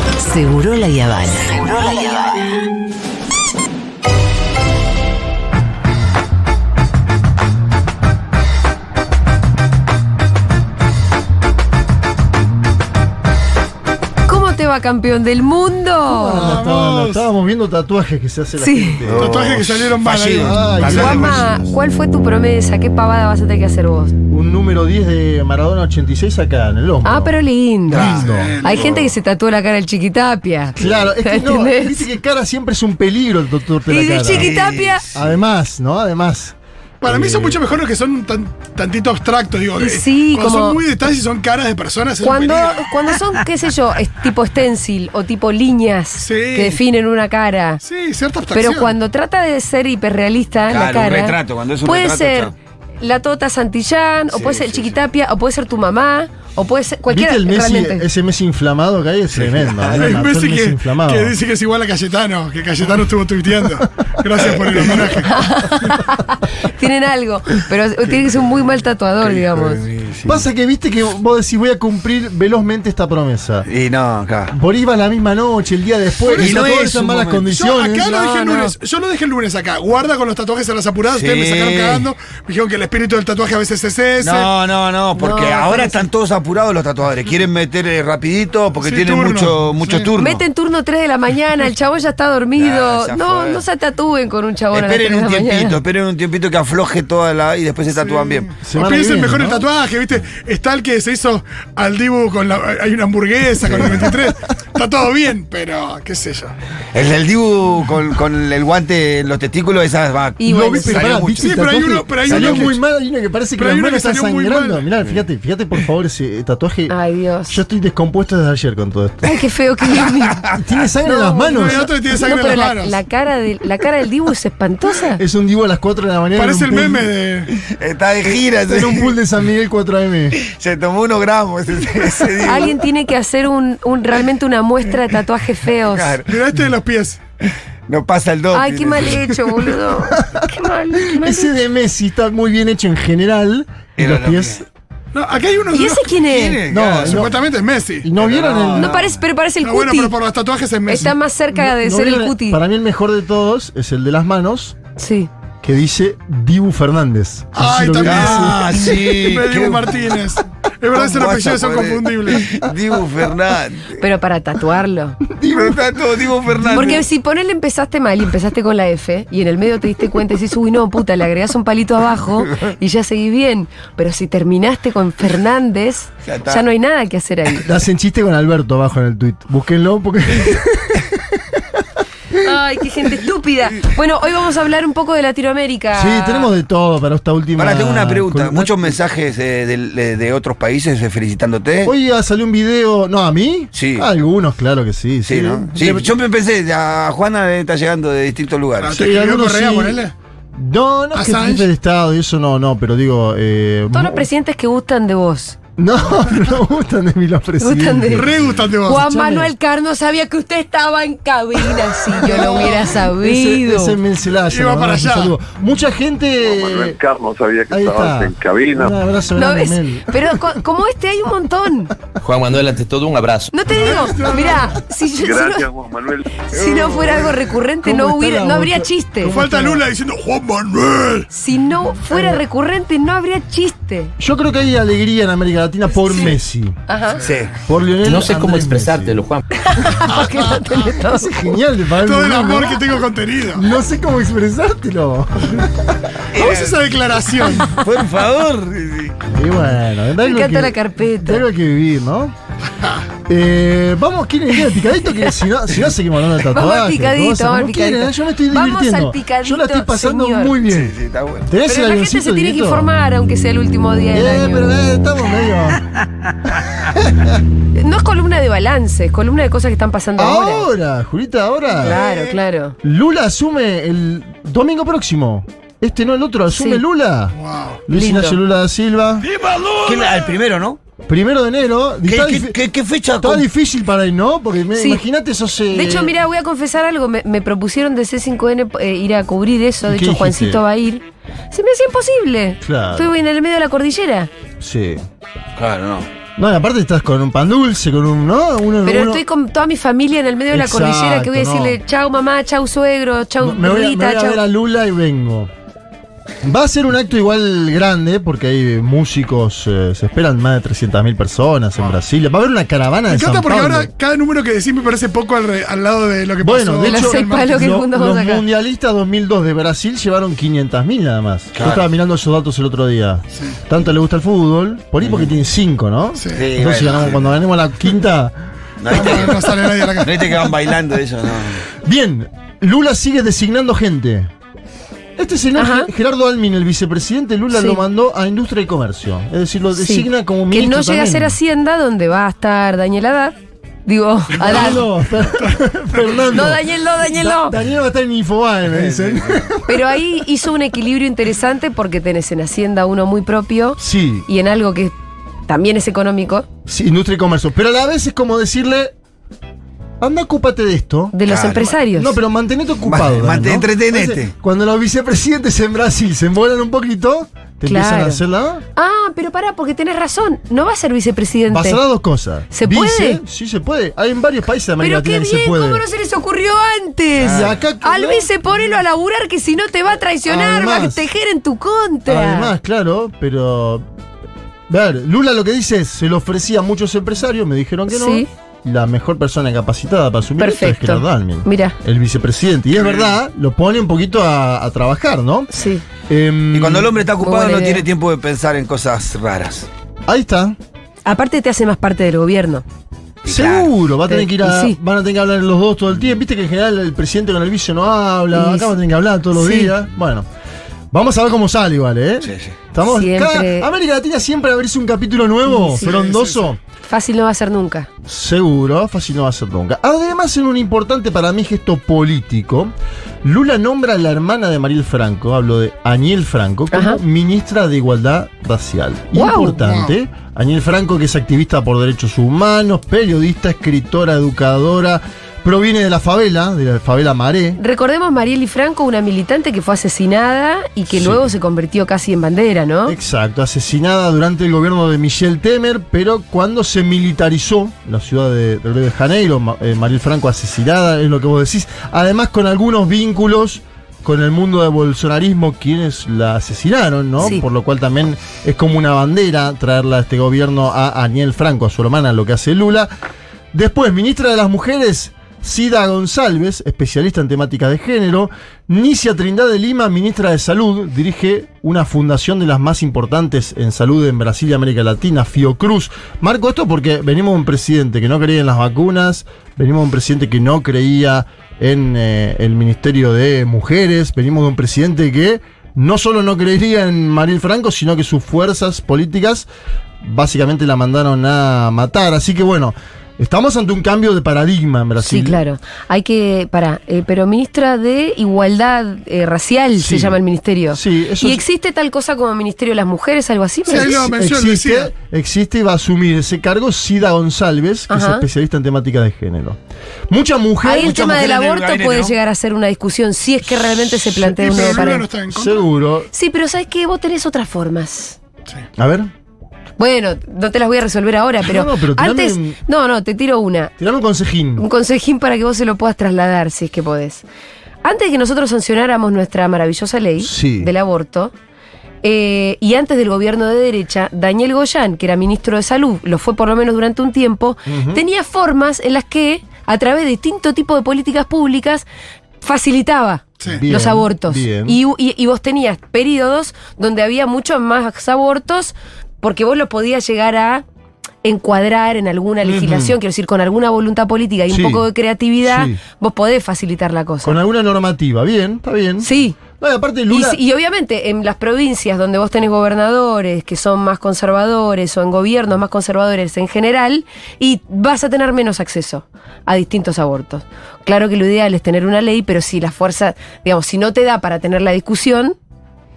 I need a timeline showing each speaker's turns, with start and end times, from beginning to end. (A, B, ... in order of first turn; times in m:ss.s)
0:00.2-0:02.5 A
0:14.2-0:16.6 B
0:16.1-0:19.4 C
0:16.3-0:17.2 D
0:18.6-0:19.0 B
0:19.1-0:21.5 E
0:19.1-0:21.6 D
0:20.4-0:21.4 C
0:20.8-0:24.1 B
0:24.3-0:27.4 C
0:27.0-0:32.1 B
0:27.9-0:28.6 C
0:27.9-0:29.0 E
0:28.0-0:29.0 D
0:30.8-0:34.6 C
0:33.9-0:35.0 B
0:34.3-0:35.4 E
0:35.1-0:37.6 C
0:37.0-0:42.9 D
0:39.8-0:40.8 B
0:42.2-0:47.8 B
0:46.2-0:46.8 D
0:47.8-0:48.9 D
0:48.5-0:58.0 B
0:50.7-0:52.5 E
0:54.3-0:54.9 E
0:57.1-1:01.4 C
0:59.3-1:00.2 E
1:00.0-1:05.4 D
1:05.2-1:09.8 B
1:09.2-1:10.4 E
1:10.2-1:13.7 C
1:13.7-1:14.5 E
1:14.5-1:18.2 C
1:16.3-1:16.7 D
1:16.3-1:17.5 E
1:17.5-1:24.5 D
1:18.2-1:18.7 B
1:21.1-1:22.1 E
1:24.2-1:30.4 E
1:25.2-1:26.0 B
1:28.8-1:30.1 D
1:30.2-1:35.8 B
1:32.6-1:33.6 E
1:34.7-1:38.5 E
1:37.9-1:46.5 D
1:38.6-1:39.6 C
1:43.6-1:44.0 E
1:46.9-1:52.8 E
1:50.4-1:51.2 B
1:50.4-1:57.0 C
1:51.4-1:52.7 D
1:53.6-1:54.9 D
1:56.9-1:57.6 B
1:57.5-1:59.4 C
1:59.2-2:00.4 B
2:00.4-2:01.9 C
2:01.0-2:05.2 B
2:01.3-2:03.0 D
2:05.2-2:07.1 C
2:06.4-2:07.5 D
2:07.6-2:09.1 E
2:08.7-2:10.4 C
2:10.4-2:12.8 E
2:12.4-2:16.2 B
2:15.8-2:16.4 E
2:16.3-2:17.2 D
2:17.9-2:19.4 E
2:18.5-2:21.5 B
2:20.2-2:24.6 C
2:24.0-2:24.6 E
2:25.1-2:28.1 D
2:25.7-2:26.6 B
2:26.2-2:27.3 E
2:26.6-2:27.3 C
2:28.0-2:29.0 C
2:28.2-2:29.1 E
2:28.8-2:30.1 B
2:29.6-2:31.2 D
2:30.9-2:32.6 B
2:31.5-2:34.8 C
2:35.0-2:35.3 B
2:35.6-2:38.8 C
2:37.5-2:42.6 D
2:38.0-2:40.2 E
2:40.9-2:44.0 E
2:44.0-2:45.2 B
2:45.3-2:46.9 C
2:45.5-2:47.0 E
2:46.7-2:57.7 B
2:56.2-2:56.6 E
2:57.6-3:01.8 C
3:02.4-3:06.5 B
3:05.9-3:09.0 C
3:07.6-3:11.9 E
3:11.8-3:16.1 C
3:13.7-3:14.0 E
3:15.2-3:19.1 E
3:18.8-3:20.1 D
3:19.0-3:20.0 C
3:20.5-3:24.3 C
3:21.1-3:21.7 D
3:23.9-3:25.6 B
3:25.8-3:29.5 C
3:27.6-3:34.0 B
3:28.1-3:29.0 D
3:32.2-3:33.0 D
3:32.3-3:37.0 C
3:34.4-3:35.4 D
3:36.4-3:38.9 F
3:37.7-3:40.5 C
3:39.4-3:41.9 B
3:42.2-3:43.6 G
3:43.5-3:45.7 B
3:43.7-3:44.7 D
3:45.2-3:46.4 F
3:46.5-3:49.4 B
3:46.5-3:47.4 E
3:47.8-3:49.8 C
3:49.2-3:51.3 D
3:51.3-3:54.1 B
3:52.1-3:52.4 C
3:54.2-3:56.8 C
3:56.0-3:57.2 B
3:57.2-3:57.5 E
3:57.7-3:59.2 C
3:58.0-3:59.4 G
3:59.6-4:01.5 B
4:00.2-4:00.6 D
4:00.7-4:02.9 C
4:02.0-4:03.7 D
4:03.5-4:06.0 C
4:06.3-4:06.8 E
4:06.3-4:07.8 D
4:07.7-4:09.2 E
4:09.3-4:12.3 C
4:10.2-4:11.4 B
4:13.3-4:22.9 C
4:16.5-4:20.6 B
4:20.7-4:21.5 E
4:21.6-4:24.7 B
4:24.1-4:25.8 C
4:26.9-4:27.4 C
4:27.7-4:30.7 B
4:30.2-4:32.0 C
4:31.8-4:32.8 B
4:31.9-4:32.4 E
4:32.8-4:37.4 C
4:36.5-4:36.8 B
4:37.4-4:37.8 D
4:37.9-4:39.3 C
4:37.9-4:38.4 B
4:39.2-4:40.4 D
4:39.8-4:40.8 E
4:41.0-4:42.6 C
4:42.0-4:43.4 E
4:43.2-4:46.1 C
4:44.8-4:45.0 B
4:45.7-4:54.3 B
4:49.8-4:50.6 C
4:52.6-4:53.1 C
4:54.6-4:55.0 C
4:55.6-4:56.1 E
4:56.4-4:59.2 C
4:58.8-5:04.4 B
5:00.5-5:01.8 C
5:03.4-5:05.5 C
5:06.4-5:13.9 C
5:13.1-5:17.8 D
5:16.4-5:28.3 C
5:16.8-5:18.4 B
5:21.6-5:21.8 E
5:25.0-5:25.3 E
5:26.2-5:26.4 D
5:26.3-5:27.2 E
5:28.8-5:31.7 E
5:28.9-5:30.6 D
5:28.9-5:29.3 C
5:31.8-5:34.3 C
5:35.2-5:41.4 C
5:35.6-5:35.9 B
5:37.5-5:37.8 B
5:39.7-5:44.8 B
5:44.4-5:50.0 C
5:46.3-5:47.6 B
5:48.7-5:49.5 E
5:49.6-5:54.9 B
5:53.8-5:54.3 C
5:55.5-5:56.5 B
5:56.7-5:58.9 C
6:00.0-6:08.6 C
6:01.1-6:02.1 B
6:01.2-6:01.7 E
6:02.8-6:04.3 E
6:07.6-6:08.2 B
6:08.8-6:11.8 B
6:11.5-6:15.8 C
6:12.5-6:13.2 B
6:14.8-6:22.5 B
6:17.2-6:18.3 C
6:17.2-6:17.6 E
6:20.2-6:21.1 C
6:22.1-6:23.8 C
6:24.7-6:35.5 C
6:27.9-6:28.3 B
6:30.4-6:31.8 B
6:35.5-6:35.8 B
6:36.1-6:37.0 C
6:36.5-6:39.7 E
6:37.2-6:37.8 B
6:40.0-6:40.6 C
6:41.0-6:42.6 B
6:43.2-6:43.7 E
6:43.2-6:50.2 C
6:44.1-6:44.8 B
6:48.3-6:48.7 B
6:49.3-6:49.7 B
6:50.9-6:56.6 C
6:52.2-6:52.5 E
6:52.8-6:53.7 B
6:55.5-6:55.9 B
6:55.7-6:56.5 D
6:56.8-6:57.9 B
6:58.0-7:17.6 C
7:06.7-7:07.0 B
7:09.1-7:09.6 B
7:09.6-7:09.9 D
7:17.6-7:22.9 B
7:20.9-7:21.2 C
7:22.8-7:42.9 C
7:43.5-8:09.5 C
8:10.0-8:15.4 C
8:15.0-8:24.0 B
8:19.8-8:20.2 C
8:20.7-8:21.4 C
8:23.6-8:24.9 D
8:23.7-8:31.2 C
8:27.9-8:28.2 B
8:30.6-8:35.0 B
8:30.7-8:32.1 E
8:33.8-8:36.1 C
8:34.2-8:35.7 D
8:36.1-8:38.2 B
8:38.8-8:39.1 C
8:39.8-8:43.7 B
8:41.4-8:42.6 C
8:43.8-8:44.6 C
8:44.6-8:47.2 B
8:47.8-8:51.3 B
8:50.2-8:50.7 C
8:52.0-9:01.8 B
8:57.7-8:58.0 C
9:02.4-9:10.6 B
9:03.4-9:04.8 C
9:11.2-9:17.4 B
9:12.4-9:13.0 C
9:14.5-9:14.8 C
9:15.4-9:15.8 C
9:17.2-9:20.4 C
9:19.0-9:19.4 B
9:20.1-9:35.4 B